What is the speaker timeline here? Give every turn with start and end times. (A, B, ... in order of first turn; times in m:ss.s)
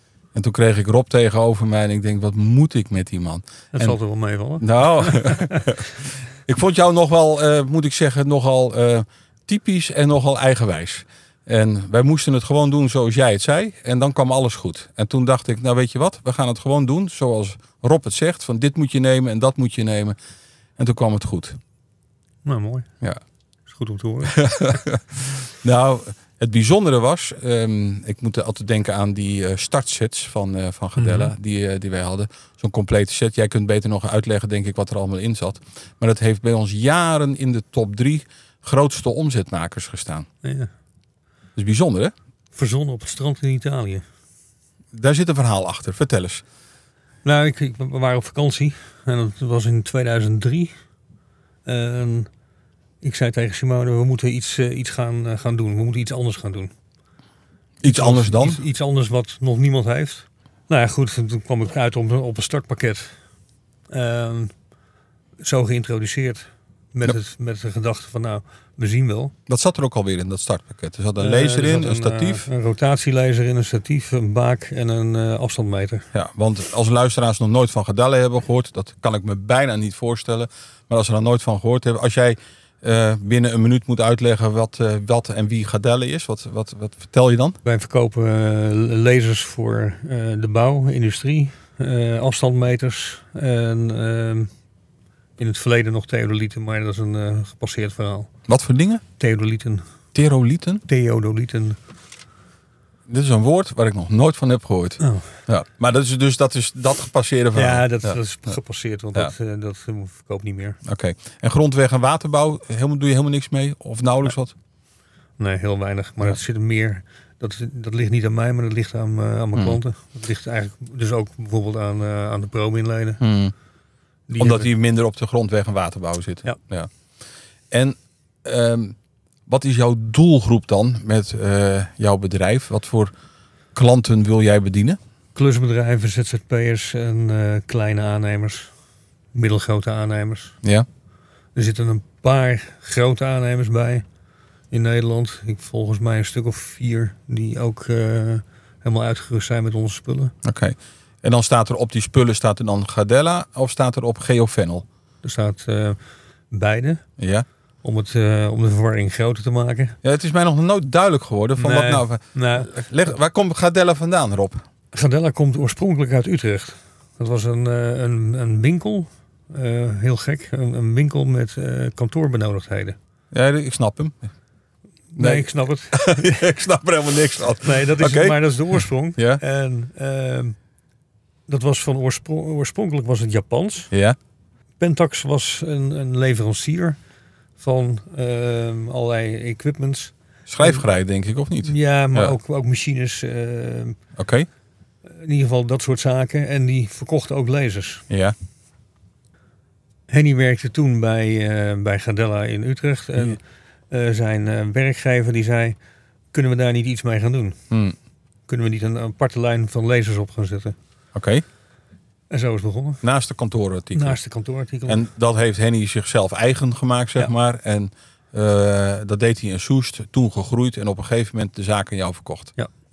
0:00.3-0:04.0 A
0:03.7-0:05.7 B
0:04.6-0:20.2 A
0:20.8-0:21.6 A
0:22.4-0:22.9 B
0:23.7-0:24.4 B
0:24.3-0:40.3 A
0:31.0-0:31.3 B
0:40.4-0:40.7 B
0:41.6-0:42.1 A
0:42.5-0:44.0 B
0:44.9-0:46.4 A
0:47.2-0:50.7 B
0:51.6-0:52.3 B
0:53.0-0:56.7 B
0:57.8-0:58.6 A
0:57.8-1:03.1 B
1:03.9-1:04.5 B
1:05.4-1:09.3 B
1:09.5-1:12.5 A
1:11.2-1:16.1 B
1:16.1-1:27.6 A
1:27.6-1:34.5 B
1:35.4-1:38.3 B
1:38.5-1:39.0 A
1:39.2-1:39.8 B
1:40.1-1:40.8 A
1:40.9-1:41.8 B
1:43.1-1:48.2 A
1:45.0-1:45.3 B
1:47.5-1:50.8 B
1:50.8-1:54.5 A
1:55.4-2:03.2 B
1:59.6-1:59.8 A
2:03.2-2:03.5 A
2:04.3-2:04.7 B
2:04.4-2:06.9 A
2:07.7-2:09.0 A
2:09.5-2:13.1 A
2:13.7-2:15.0 A
2:15.4-2:18.7 B
2:19.3-2:20.6 B
2:21.6-2:24.0 B
2:24.7-2:30.3 B
2:30.4-2:34.8 A
2:35.2-2:36.0 B
2:36.5-2:37.0 B
2:37.2-2:37.5 A
2:37.8-2:40.0 B
2:40.0-2:44.6 A
2:41.6-2:42.7 B
2:44.9-2:53.0 B
2:53.3-2:54.3 A
2:55.1-2:56.3 B
2:55.2-2:59.4 A
2:57.6-3:00.6 B
3:01.5-3:03.9 B
3:03.9-3:04.2 A
3:04.8-3:07.0 B
3:07.6-3:10.8 B
3:10.5-3:12.4 A
3:11.6-3:14.0 B
3:14.2-3:14.5 A
3:15.1-3:18.0 B
3:18.1-3:18.4 A
3:20.1-3:25.8 B
3:26.3-3:27.6 B
3:27.7-3:28.0 A
3:28.5-3:30.8 B
3:31.2-3:31.4 A
3:32.3-3:33.0 B
3:33.0-3:34.2 A
3:33.9-3:35.0 B
3:34.9-3:42.5 A